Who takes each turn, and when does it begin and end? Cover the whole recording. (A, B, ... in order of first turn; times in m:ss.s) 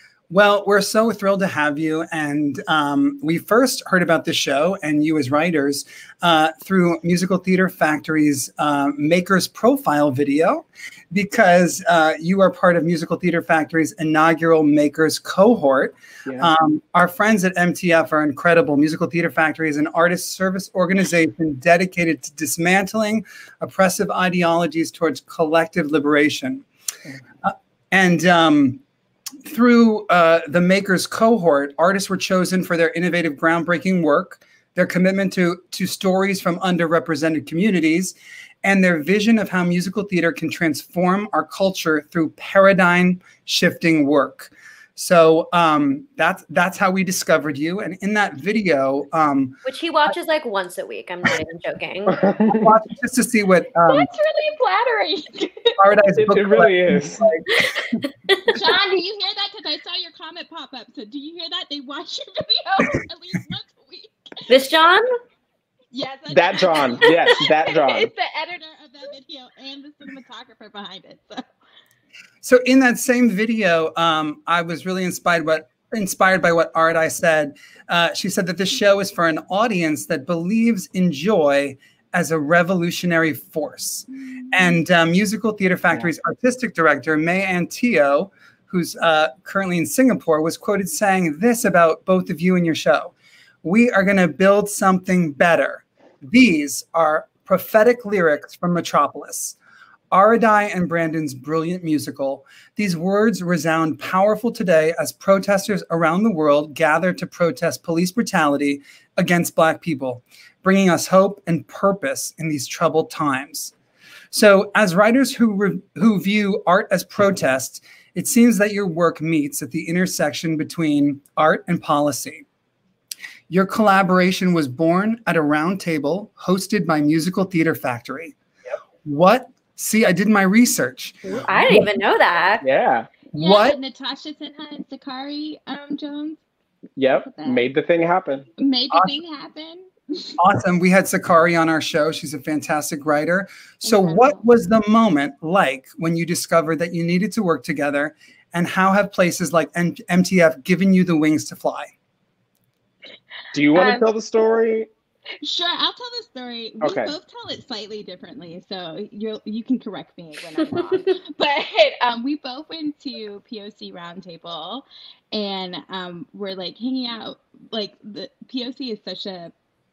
0:00.3-0:26.6 A
0:27.4-0:28.8 A
0:29.5-0:49.6 A
0:49.6-0:52.2 B
0:52.1-0:52.7 C
0:52.5-0:54.1 A
0:53.9-0:55.7 D
0:55.8-0:57.6 A
0:56.2-0:57.2 C
0:58.5-1:04.2 D
1:04.5-1:05.0 B
1:05.9-1:11.4 D
1:06.3-1:08.1 C
1:12.4-1:39.6 A
1:40.1-1:53.7 A
1:54.3-2:02.4 A
2:03.5-2:08.4 A
2:09.0-2:11.9 A
2:11.3-2:12.6 B
2:12.6-2:13.1 C
2:13.3-2:13.8 A
2:13.4-2:16.4 D
2:17.0-2:18.5 C
2:17.2-2:17.6 D
2:18.6-2:20.4 D
2:20.4-2:31.9 A
2:23.8-2:24.4 B
2:33.5-2:34.9 C
2:33.8-2:34.0 B
2:35.4-2:49.5 D
2:36.8-2:37.2 C